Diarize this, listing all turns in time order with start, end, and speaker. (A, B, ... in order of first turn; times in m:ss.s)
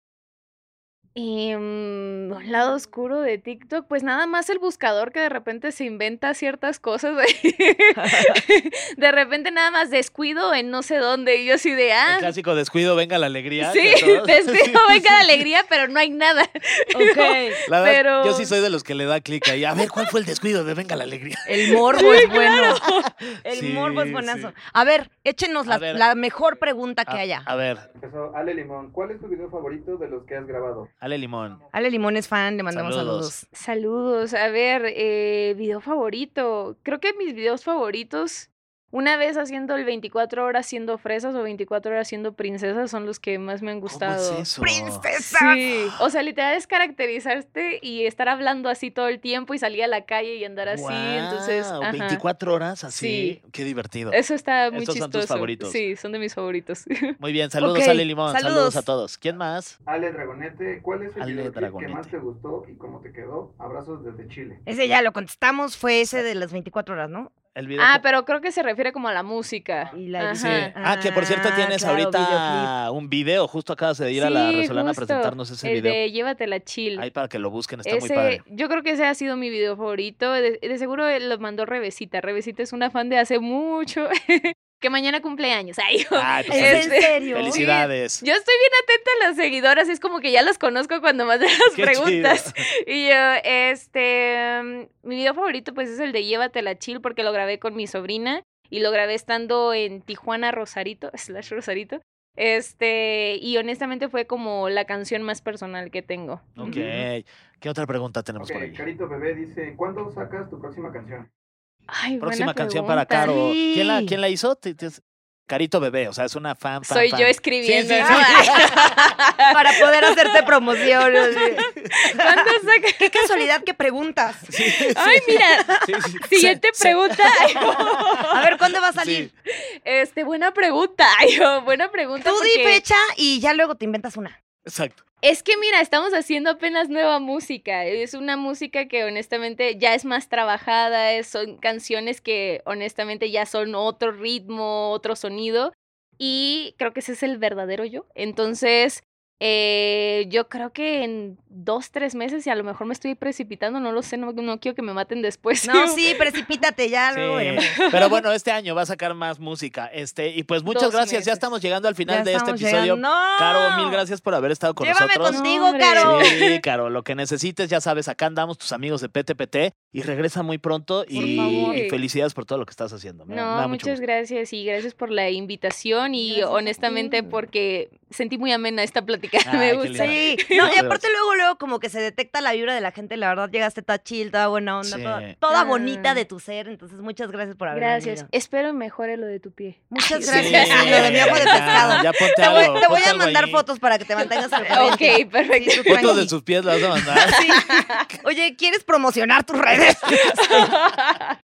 0:01.2-0:12.3 A
0:08.0-0:08.4 B
0:12.1-0:15.4 C
0:13.6-0:18.5 A
0:16.9-0:17.6 B
0:17.7-0:22.3 C
0:21.4-0:22.8 B
0:21.9-0:23.0 A
0:23.3-0:24.5 C
0:23.4-0:27.5 B
0:25.7-0:26.0 C
0:27.1-0:27.9 C
0:28.0-0:30.9 D
0:31.0-0:31.6 C
0:31.7-0:33.4 B
0:32.7-0:33.3 C
0:33.5-0:44.4 A
0:43.9-0:45.0 C
0:44.6-0:45.6 B
0:45.3-0:52.2 A
0:50.7-0:54.2 C
0:52.9-0:53.4 A
0:54.1-0:57.2 A
0:54.7-0:55.8 C
0:57.2-0:59.7 C
0:57.6-0:58.8 B
0:59.8-1:04.6 D
1:01.2-1:02.1 C
1:04.6-1:07.3 B
1:07.5-1:08.0 C
1:07.8-1:10.7 A
1:09.9-1:12.7 B
1:10.4-1:16.0 C
1:14.1-1:17.0 A
1:17.0-1:18.4 C
1:17.8-1:46.8 A
1:26.1-1:28.2 C
1:26.5-1:27.6 B
1:31.7-1:32.5 C
1:46.6-1:48.8 C
1:46.6-1:47.0 B
1:48.4-1:51.3 D
1:51.9-1:53.3 A
1:52.2-1:59.1 C
1:53.2-1:54.2 B
1:56.8-2:00.4 A
1:58.0-1:58.6 B
1:59.5-2:04.9 B
2:01.9-2:03.4 A
2:04.5-2:07.8 C
2:05.0-2:05.7 A
2:05.7-2:06.0 B
2:06.3-2:08.4 A
2:08.3-2:09.3 B
2:08.9-2:09.3 C
2:09.6-2:12.8 A
2:12.2-2:14.4 B
2:14.6-2:15.0 C
2:15.2-2:36.2 A
2:35.6-2:37.7 B
2:37.1-2:45.4 C
2:37.7-2:38.1 A
2:40.7-2:41.4 A
2:42.0-2:44.0 B
2:44.8-2:46.3 B
2:45.2-2:46.6 A
2:46.0-2:54.0 C
2:51.1-2:51.8 B
2:51.1-2:52.0 A
2:53.3-3:00.8 A
2:56.2-2:57.4 B
2:59.4-3:01.0 C
2:59.9-3:08.3 B
3:04.8-3:05.4 C
3:05.5-3:06.2 A
3:07.7-3:13.0 A
3:09.9-3:16.3 B
3:10.3-3:13.6 C
3:14.6-3:16.2 A
3:15.9-3:17.6 C
3:17.2-3:18.0 A
3:17.3-3:20.7 B
3:20.2-3:21.3 A